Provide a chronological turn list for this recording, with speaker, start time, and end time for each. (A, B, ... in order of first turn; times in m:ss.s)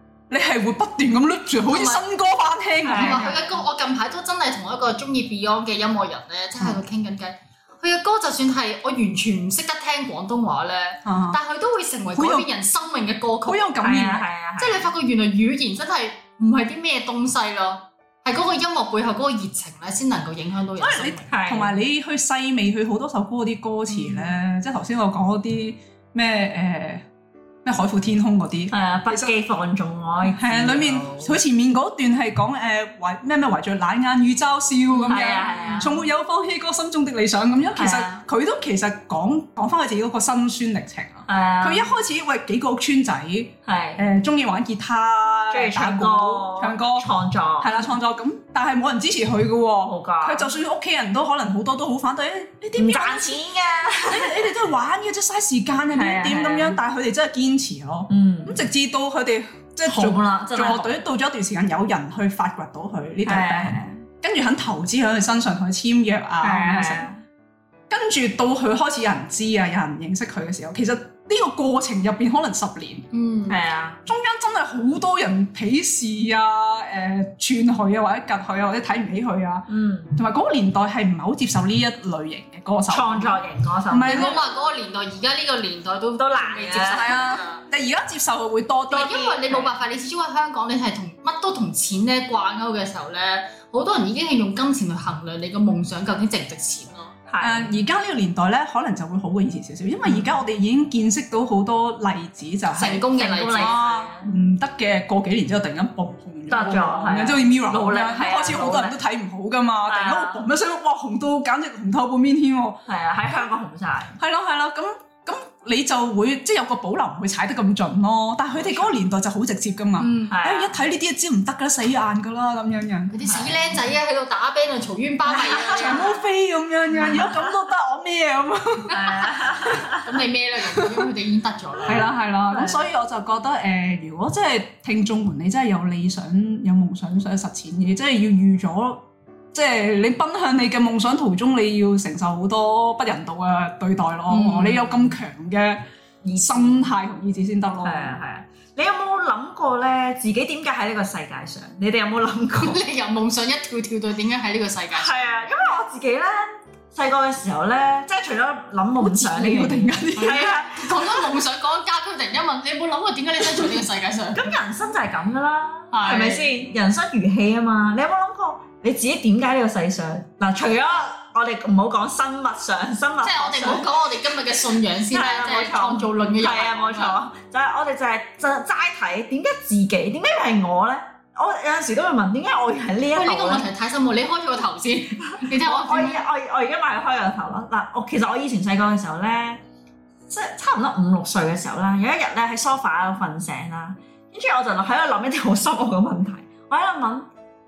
0:00.3-0:03.4 A
0:01.7-0:02.0 B
0:02.8-0:03.4 C
0:02.9-0:13.8 B
0:11.0-0:11.4 A
0:12.2-0:12.4 A
0:13.4-0:14.3 A
0:13.8-0:14.9 C
0:14.6-0:21.3 B
0:20.8-0:27.0 A
0:21.3-0:21.8 C
0:23.9-0:24.3 B
0:27.6-0:29.3 A
0:28.7-0:31.4 C
0:30.3-0:47.1 A
0:34.9-0:35.8 B
0:35.1-0:36.0 C
0:37.7-0:38.2 C
0:41.3-0:41.9 C
0:43.6-0:44.1 C
0:45.5-0:47.9 C
0:47.6-0:53.4 A
0:49.8-0:50.5 C
0:52.8-0:54.5 C
0:54.0-1:07.1 A
0:55.9-0:56.8 C
0:58.1-0:58.6 C
0:59.8-1:01.0 C
1:03.2-1:04.0 C
1:06.4-1:07.2 C
1:07.9-1:13.1 A
1:13.1-1:13.6 B
1:13.5-1:14.0 C
1:14.1-1:23.4 A
1:19.7-1:20.2 C
1:22.9-1:24.4 C
1:23.9-1:24.4 A
1:24.1-1:27.6 B
1:26.2-1:27.0 C
1:26.9-1:29.4 A
1:28.9-1:37.2 B
1:29.3-1:29.7 C
1:37.3-1:37.7 C
1:37.4-1:53.4 A
1:40.0-1:40.3 C
1:42.7-1:43.8 B
1:43.1-1:44.3 C
1:46.5-1:49.0 C
1:49.9-1:50.5 C
1:52.8-1:54.2 C
1:54.2-2:03.1 A
1:58.5-1:59.0 C
2:00.0-2:00.4 B
2:00.3-2:00.8 C
2:03.1-2:06.2 B
2:03.2-2:03.8 C
2:05.3-2:06.1 C
2:05.6-2:09.0 A
2:07.0-2:07.3 B
2:07.0-2:07.4 C
2:08.9-2:12.1 B
2:08.9-2:10.1 C
2:11.8-2:25.8 A
2:12.5-2:12.8 C
2:24.3-2:24.8 B
2:24.4-2:25.1 C
2:26.2-2:26.9 C
2:26.4-2:28.2 A
2:27.8-2:32.8 C
2:32.6-2:35.1 B
2:34.9-2:41.1 C
2:39.0-2:40.5 A
2:40.2-2:44.5 B
2:44.3-2:53.9 C
2:45.9-2:46.5 B
2:53.2-2:57.2 B
2:55.1-3:03.7 C
3:03.1-3:06.2 B
3:05.4-3:09.6 C
3:10.3-3:17.3 C